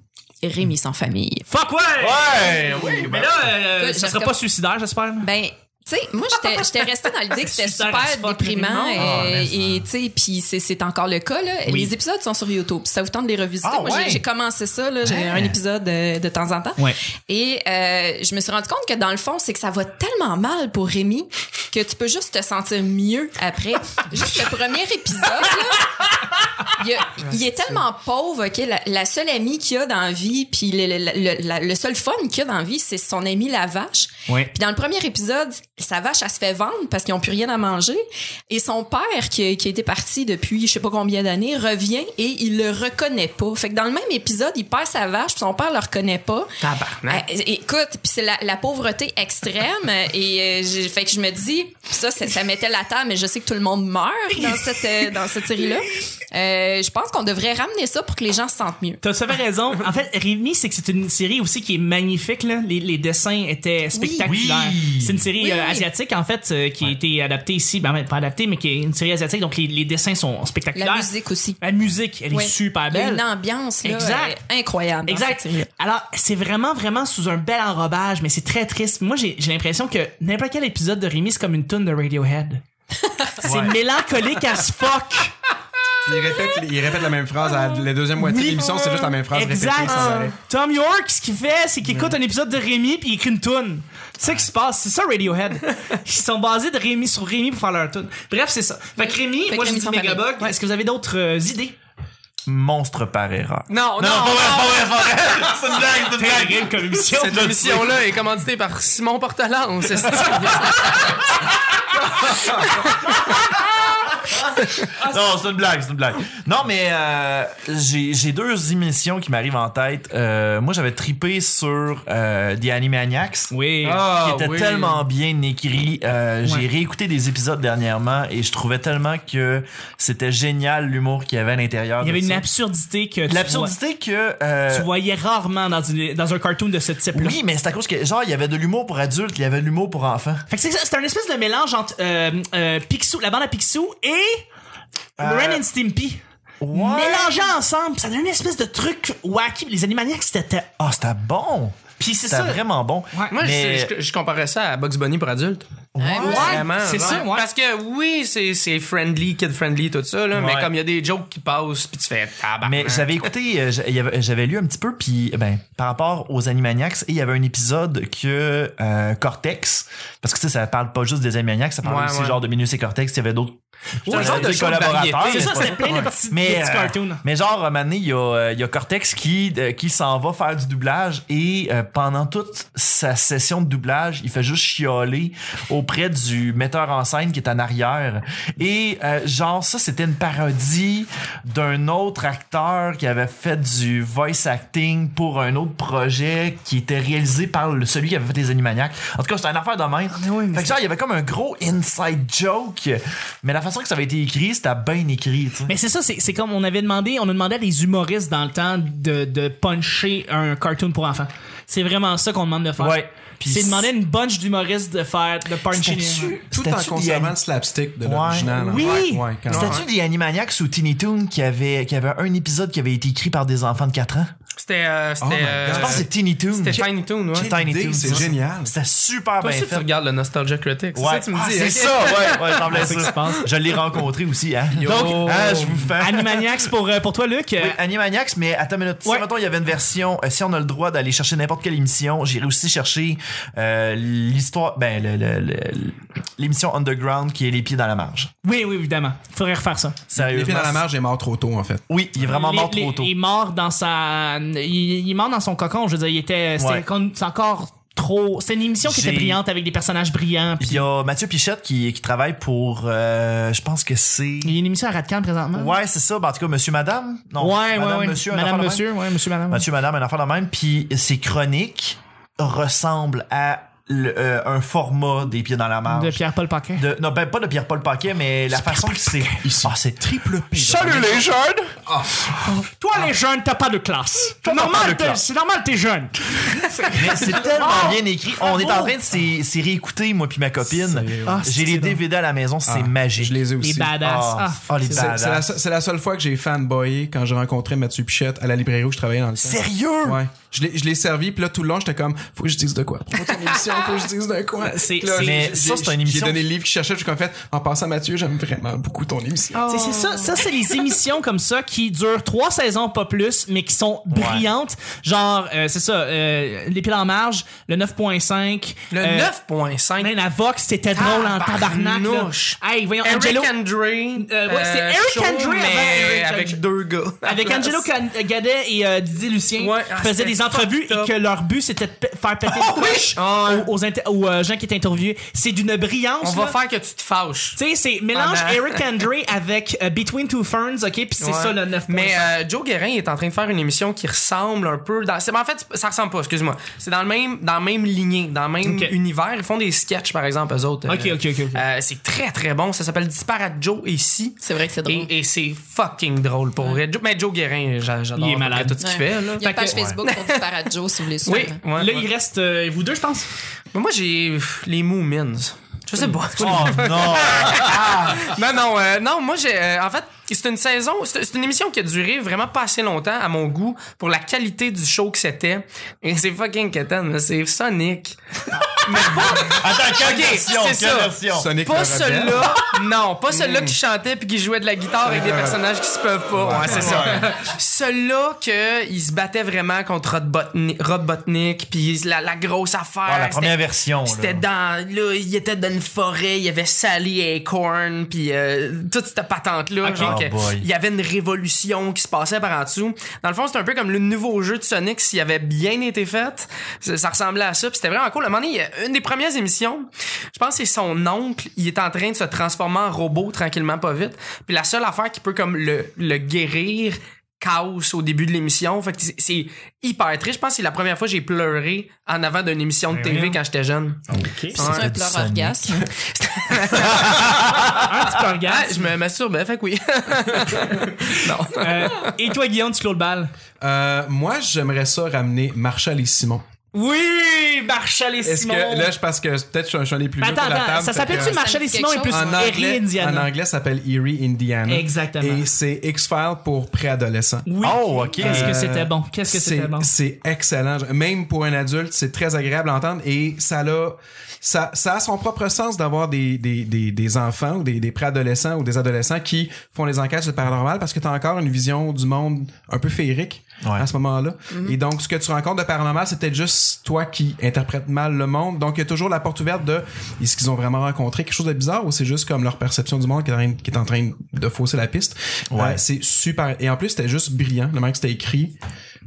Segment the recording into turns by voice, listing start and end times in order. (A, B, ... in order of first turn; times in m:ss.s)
0:00.4-0:01.5 A
0:01.5-0:05.3 B
0:02.0-0:03.6 C
0:03.8-0:04.4 A
0:05.2-0:26.0 A
0:06.5-0:09.4 B
0:09.0-0:09.8 C
0:11.7-0:11.9 B
0:13.6-0:14.2 C
0:15.0-0:15.6 C
0:26.7-0:46.5 A
0:27.2-0:27.8 D
0:34.3-0:34.5 B
0:46.6-0:47.2 D
0:47.1-0:59.0 A
0:54.4-0:55.1 B
0:59.0-1:13.2 B
1:03.9-1:04.3 A
1:04.2-1:05.3 C
1:05.4-1:05.9 A
1:10.8-1:11.6 A
1:12.3-1:15.7 A
1:13.8-1:14.4 B
1:15.1-1:22.6 B
1:23.4-1:25.3 B
1:23.4-1:23.8 C
1:26.0-1:30.3 E
1:28.2-1:41.8 B
1:29.9-1:30.3 D
1:39.5-1:40.5 A
1:42.5-1:48.0 C
1:43.7-1:45.5 D
1:46.2-1:47.6 B
1:47.1-1:51.3 D
1:50.2-1:51.2 C
1:52.3-1:53.1 D
1:55.0-2:03.5 C
2:03.5-2:04.0 B
2:03.8-2:05.0 D
2:04.1-2:12.5 C
2:12.0-2:13.8 B
2:13.3-2:14.9 C
2:14.7-2:17.4 B
2:17.1-2:20.5 C
2:20.5-2:24.4 B
2:25.2-2:25.6 C
2:25.2-2:30.7 B
2:26.6-2:27.5 C
2:30.8-2:33.9 C
2:32.0-2:33.4 B
2:33.3-2:35.7 D
2:36.0-2:36.6 C
2:36.0-2:36.6 A
2:36.2-2:37.4 B
2:36.2-2:43.3 D
2:40.3-2:40.7 C
2:42.6-3:25.7 C
2:51.8-2:52.4 D
2:54.0-2:57.2 B
2:54.1-2:55.9 D
3:20.1-3:20.8 B
3:25.7-3:36.4 B
3:32.8-3:33.9 C
3:35.7-3:37.4 C
3:36.5-3:39.8 E
3:38.0-3:38.8 C
3:38.6-3:39.3 B
3:38.7-3:39.8 D
3:39.5-3:44.3 C
3:44.6-3:48.2 D
3:45.2-3:46.1 E
3:45.7-3:49.9 C
3:47.3-3:48.7 E
3:49.4-3:53.8 D
3:51.0-3:56.7 C
3:52.6-3:53.4 B
3:54.8-3:55.9 D
3:56.0-3:57.8 B
3:57.6-4:08.3 C
4:08.4-4:10.0 B
4:10.1-4:10.8 C
4:10.2-4:11.9 E
4:11.9-4:13.1 C
4:12.2-4:20.9 B
4:16.6-4:16.9 C
4:18.8-4:19.4 C
4:20.6-4:24.6 C
4:24.4-4:25.8 B
4:25.5-4:28.9 C
4:27.4-4:29.6 B
4:29.5-4:36.2 C
4:35.9-4:36.9 B
4:36.8-4:40.1 C
4:38.8-4:39.4 B
4:39.4-4:42.5 E
4:40.6-4:41.3 C
4:40.7-4:41.4 B
4:42.4-4:49.0 B
4:44.4-4:45.2 C
4:47.0-4:55.5 C
4:50.7-4:51.5 E
4:51.2-4:52.0 B
4:52.7-4:54.0 E
4:53.6-4:55.2 B
4:54.9-5:09.6 E
4:59.4-5:00.2 C
5:04.6-5:05.5 B
5:05.2-5:06.4 C
5:09.6-5:10.4 D
5:09.6-5:19.3 B
5:14.1-5:14.5 C
5:18.9-5:20.1 D
5:20.0-5:23.5 B
5:21.0-5:27.9 D
5:24.2-5:26.6 B
5:27.2-5:36.6 B
5:29.6-5:31.1 D
5:32.8-5:33.7 D
5:36.2-5:37.6 D
5:37.6-5:42.3 B
5:38.1-5:38.8 D
5:41.2-6:00.4 D
5:48.6-5:48.9 B
5:50.9-5:51.6 B
5:54.4-5:55.1 A
5:58.2-5:59.8 B
5:58.8-6:01.6 A
5:59.7-6:00.0 C
6:01.2-6:02.1 D
6:01.8-6:03.3 B
6:03.7-7:04.9 D
6:06.4-6:07.2 B
6:06.4-6:08.3 C
6:18.8-6:21.5 C
6:21.3-6:22.6 E
6:23.3-6:23.8 E
6:25.0-6:25.6 E
6:26.3-6:27.2 E
6:26.6-6:27.4 C
6:33.0-6:34.4 C
6:39.8-6:40.2 B
6:39.9-6:40.7 C
7:02.9-7:03.4 B
7:04.1-7:04.6 B
7:04.6-7:05.8 C
7:04.6-7:05.9 A
7:05.9-7:12.2 D
7:06.8-7:07.9 C
7:07.2-7:08.9 B
7:11.0-7:13.3 B
7:13.6-7:16.4 E
7:16.7-7:18.9 B
7:18.2-7:21.4 E
7:20.2-7:23.3 B
7:21.1-7:22.5 A
7:22.1-7:27.5 E
7:24.7-7:25.5 B
7:27.5-7:29.9 B
7:27.6-7:28.7 C
7:28.2-7:58.6 E
7:43.6-7:43.9 C
7:44.5-7:44.8 A
7:55.5-7:55.8 C